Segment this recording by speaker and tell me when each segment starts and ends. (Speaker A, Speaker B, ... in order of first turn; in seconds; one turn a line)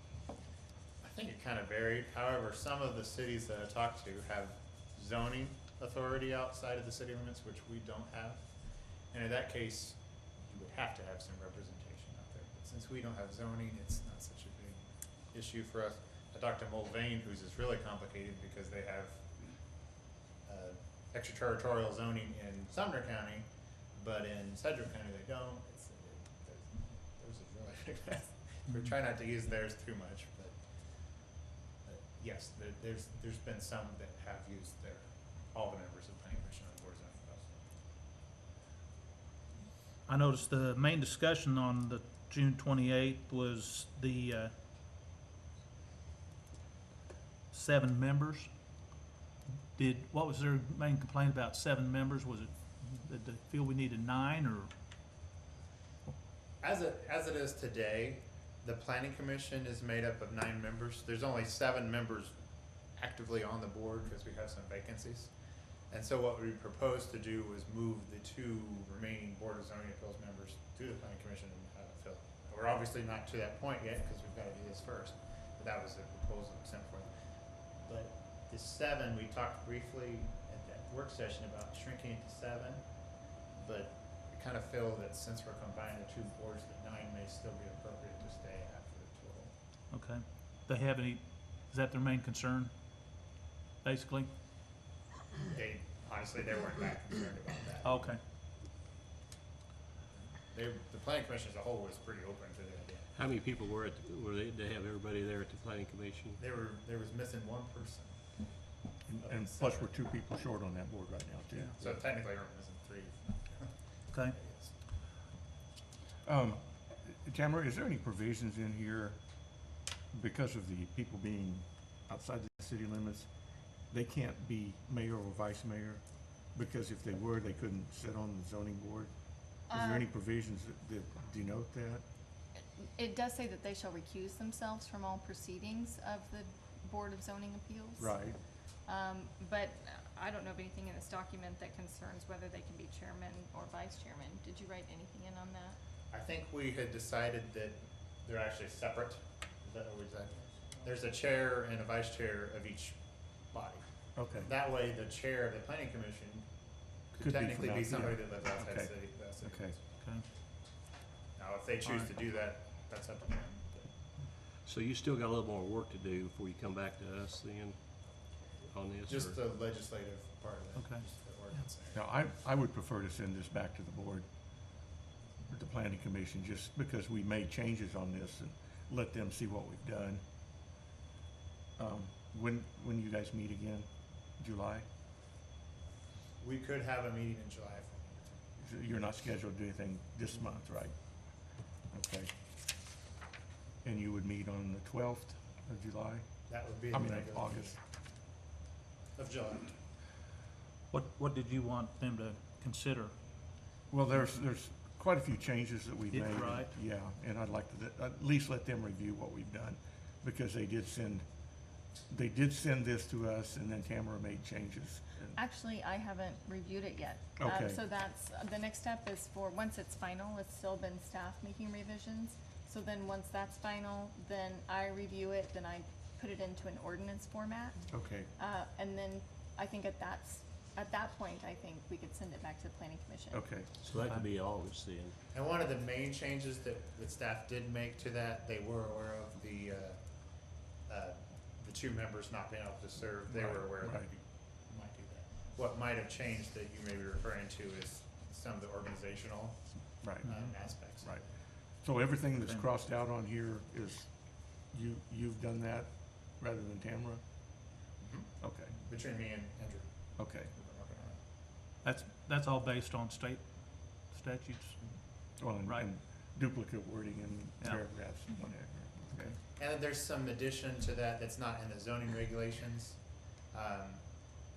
Speaker A: 1.0-8.5
Speaker A: 9.1-19.4
Speaker A: 20.4-30.6
Speaker A: 31.8-37.6
Speaker B: 40.0-44.5
Speaker B: 47.5-48.5
Speaker B: 49.7-54.7
Speaker A: 56.6-62.3
Speaker A: 63.0-65.3
Speaker A: 65.9-77.1
Speaker A: 77.8-89.5
Speaker B: 89.9-92.7
Speaker B: 93.8-94.3
Speaker A: 95.5-98.2
Speaker B: 97.8-98.2
Speaker A: 100.4-103.1
Speaker C: 103.1-106.4
Speaker A: 106.4-108.2
Speaker D: 109.1-112.0
Speaker A: 109.2-109.9
Speaker A: 111.8-114.7
Speaker D: 116.2-119.2
Speaker D: 120.1-123.3
Speaker D: 123.9-126.0
Speaker D: 126.5-129.1
Speaker D: 129.7-132.0
Speaker E: 129.7-130.1
Speaker E: 133.0-138.2
Speaker D: 138.0-138.4
Speaker E: 138.8-145.8
Speaker A: 146.1-153.0
Speaker A: 153.5-153.8
Speaker D: 154.2-154.5
Speaker A: 154.4-156.4
Speaker A: 157.1-159.8
Speaker D: 157.2-159.8
Speaker B: 160.0-160.2
Speaker A: 161.3-163.9
Speaker C: 164.6-167.8
Speaker C: 168.7-169.4
Speaker A: 169.1-172.0
Speaker B: 170.8-171.0
Speaker D: 171.9-174.2
Speaker D: 175.5-180.2
Speaker D: 181.8-183.9
Speaker D: 184.4-184.8
Speaker A: 186.4-188.4
Speaker D: 188.6-190.9
Speaker D: 191.9-192.3
Speaker D: 193.8-197.8
Speaker A: 196.5-197.8
Speaker A: 199.2-199.7
Speaker B: 200.9-203.1
Speaker D: 203.9-211.2
Speaker B: 206.1-206.7
Speaker D: 212.1-215.4
Speaker E: 215.3-233.4
Speaker D: 217.4-217.8
Speaker D: 227.9-228.3
Speaker D: 233.3-233.7
Speaker C: 233.8-235.2
Speaker A: 235.3-251.3
Speaker D: 243.3-244.1
Speaker D: 250.0-251.2
Speaker D: 251.8-254.1
Speaker D: 254.7-257.2
Speaker A: 258.0-261.2
Speaker D: 258.4-258.8
Speaker D: 260.2-260.5
Speaker B: 261.8-265.0
Speaker D: 265.4-269.3
Speaker A: 269.5-274.1